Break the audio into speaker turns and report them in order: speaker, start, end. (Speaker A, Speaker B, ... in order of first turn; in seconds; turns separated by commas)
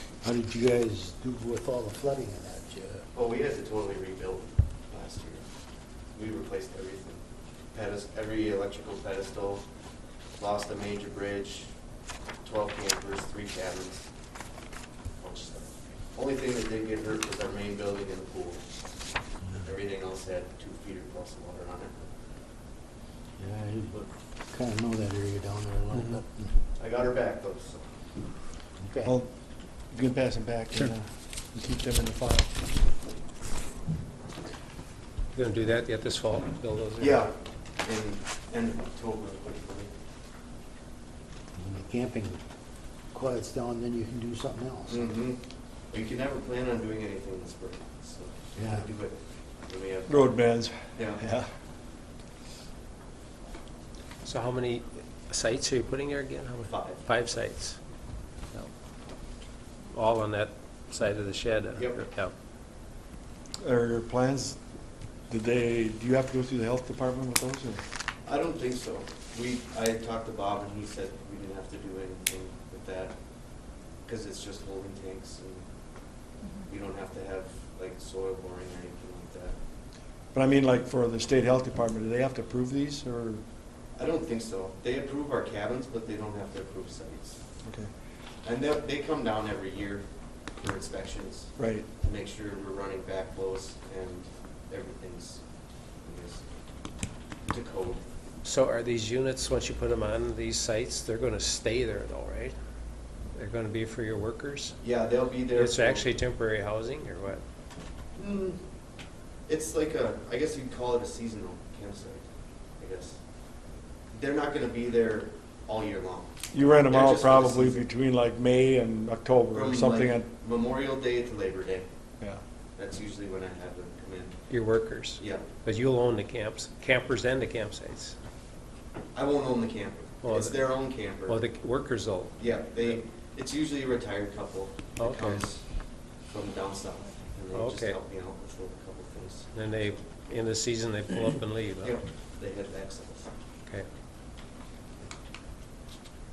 Speaker A: 0.2-3.0, Speaker B: 3.1-5.4, Speaker B: 6.2-7.2, Speaker B: 7.7-9.6, Speaker B: 10.3-11.7, Speaker B: 12.4-14.0, Speaker B: 15.2-18.6, Speaker B: 19.6-22.0, Speaker A: 23.4-26.6, Speaker B: 26.8-27.8, Speaker A: 28.8-29.1, Speaker C: 29.9-32.5, Speaker D: 35.3-37.2, Speaker B: 37.0-37.3, Speaker B: 37.8-39.9, Speaker A: 41.5-42.4, Speaker A: 43.1-45.1, Speaker B: 44.9-50.4, Speaker A: 48.5-48.9, Speaker C: 50.1-51.5, Speaker B: 50.9-51.2, Speaker D: 54.2-57.8, Speaker B: 56.7-57.0, Speaker D: 59.9-62.3, Speaker B: 61.8-62.0, Speaker C: 63.6-64.6, Speaker C: 65.3-67.8, Speaker B: 68.2-73.1, Speaker B: 74.0-75.6, Speaker B: 76.6-79.5, Speaker C: 80.3-83.4, Speaker B: 84.0-87.4, Speaker B: 88.4-90.0, Speaker B: 90.6-95.4, Speaker C: 91.6-91.9, Speaker B: 96.0-96.4, Speaker B: 97.4-98.0, Speaker D: 98.4-102.5, Speaker D: 103.3-104.8, Speaker B: 104.8-106.1, Speaker D: 105.5-107.4, Speaker B: 108.2-108.6, Speaker B: 109.5-112.2, Speaker B: 112.8-113.2, Speaker B: 114.1-116.3, Speaker C: 116.5-120.3, Speaker B: 116.9-117.8, Speaker B: 119.5-121.8, Speaker B: 122.8-124.4, Speaker D: 124.5-128.2, Speaker B: 125.2-125.4, Speaker B: 129.1-131.4, Speaker D: 130.2-130.7, Speaker D: 131.2-133.0, Speaker B: 132.4-135.6, Speaker D: 135.0-135.4, Speaker B: 136.3-139.6, Speaker D: 137.5-138.0, Speaker D: 139.5-142.0, Speaker B: 141.8-143.3